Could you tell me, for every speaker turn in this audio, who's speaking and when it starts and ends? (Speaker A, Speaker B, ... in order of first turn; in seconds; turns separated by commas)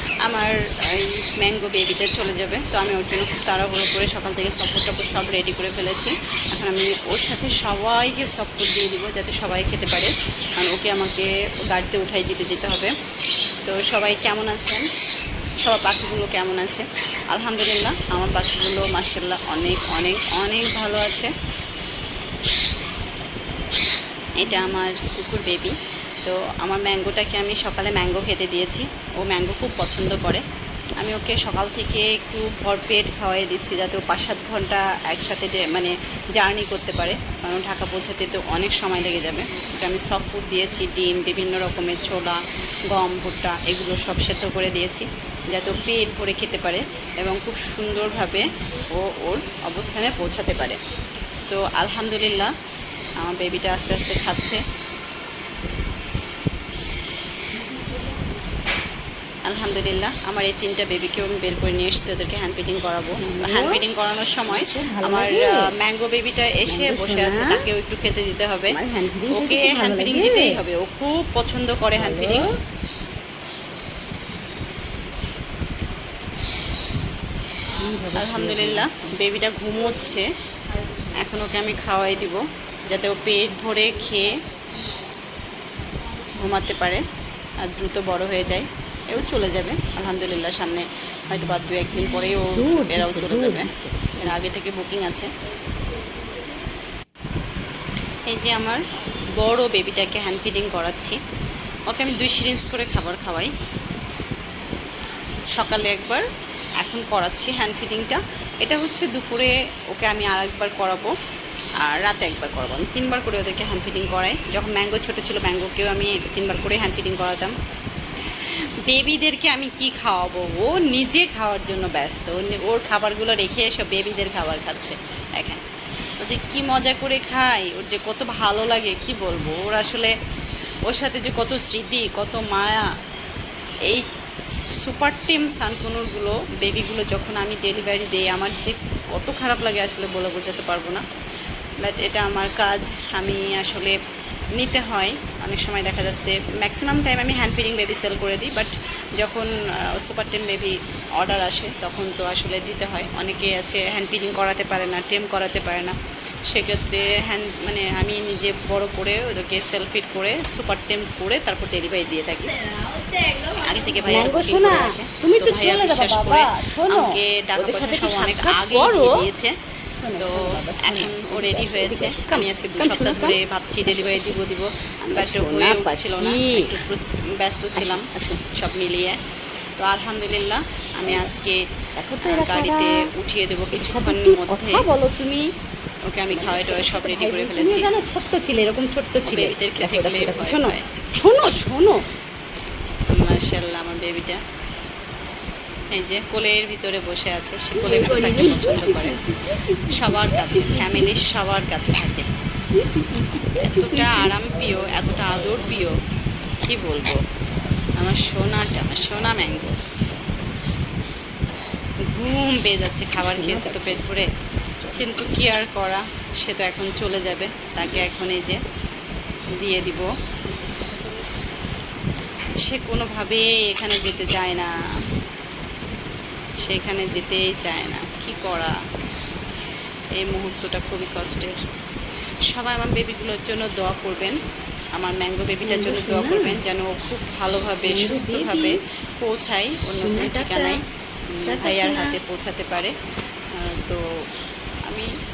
Speaker A: 0.2-12.9, Speaker A: 13.7-14.8, Speaker A: 15.6-21.3, Speaker A: 24.4-30.4, Speaker A: 31.0-50.8, Speaker A: 51.5-52.5, Speaker A: 53.2-54.6, Speaker A: 59.5-68.7, Speaker B: 63.2-63.8, Speaker B: 64.5-65.7, Speaker B: 66.7-67.6, Speaker B: 68.7-70.5, Speaker A: 69.3-72.5, Speaker B: 71.9-72.5, Speaker B: 77.8-79.1, Speaker A: 78.1-80.3, Speaker A: 81.1-84.4, Speaker A: 86.3-87.0, Speaker A: 87.6-93.7, Speaker B: 92.2-94.4, Speaker A: 94.2-95.3, Speaker A: 98.3-98.8, Speaker A: 99.4-101.2, Speaker A: 101.9-103.5, Speaker A: 105.5-106.2, Speaker A: 106.8-111.1, Speaker A: 111.8-117.5, Speaker A: 118.2-125.6, Speaker A: 126.2-130.1, Speaker A: 130.9-132.8, Speaker A: 134.8-141.0, Speaker A: 141.8-144.0, Speaker A: 144.6-155.9, Speaker A: 156.5-162.8, Speaker A: 163.4-169.5, Speaker B: 164.1-169.2, Speaker B: 170.0-174.4, Speaker A: 170.2-179.2, Speaker B: 175.1-176.7, Speaker B: 177.8-178.4, Speaker A: 179.8-181.6, Speaker B: 181.0-181.3, Speaker B: 182.0-183.0, Speaker A: 182.2-184.8, Speaker B: 183.7-185.4, Speaker A: 186.1-187.9, Speaker B: 186.3-192.0, Speaker A: 189.2-190.9, Speaker A: 193.1-194.4, Speaker A: 195.9-199.2, Speaker B: 197.8-201.1, Speaker A: 199.9-202.3, Speaker B: 202.7-204.3, Speaker A: 203.7-205.9, Speaker A: 206.6-207.2, Speaker A: 208.0-209.8, Speaker A: 212.1-214.3, Speaker B: 213.2-214.0, Speaker B: 214.8-215.2, Speaker A: 214.9-218.6, Speaker A: 219.6-220.1, Speaker A: 222.6-224.7, Speaker A: 226.6-228.8, Speaker A: 230.2-231.6, Speaker A: 232.5-234.4, Speaker A: 235.0-242.9, Speaker B: 235.6-236.6, Speaker B: 237.8-238.8, Speaker B: 240.0-240.8, Speaker B: 241.4-242.2, Speaker A: 243.6-244.0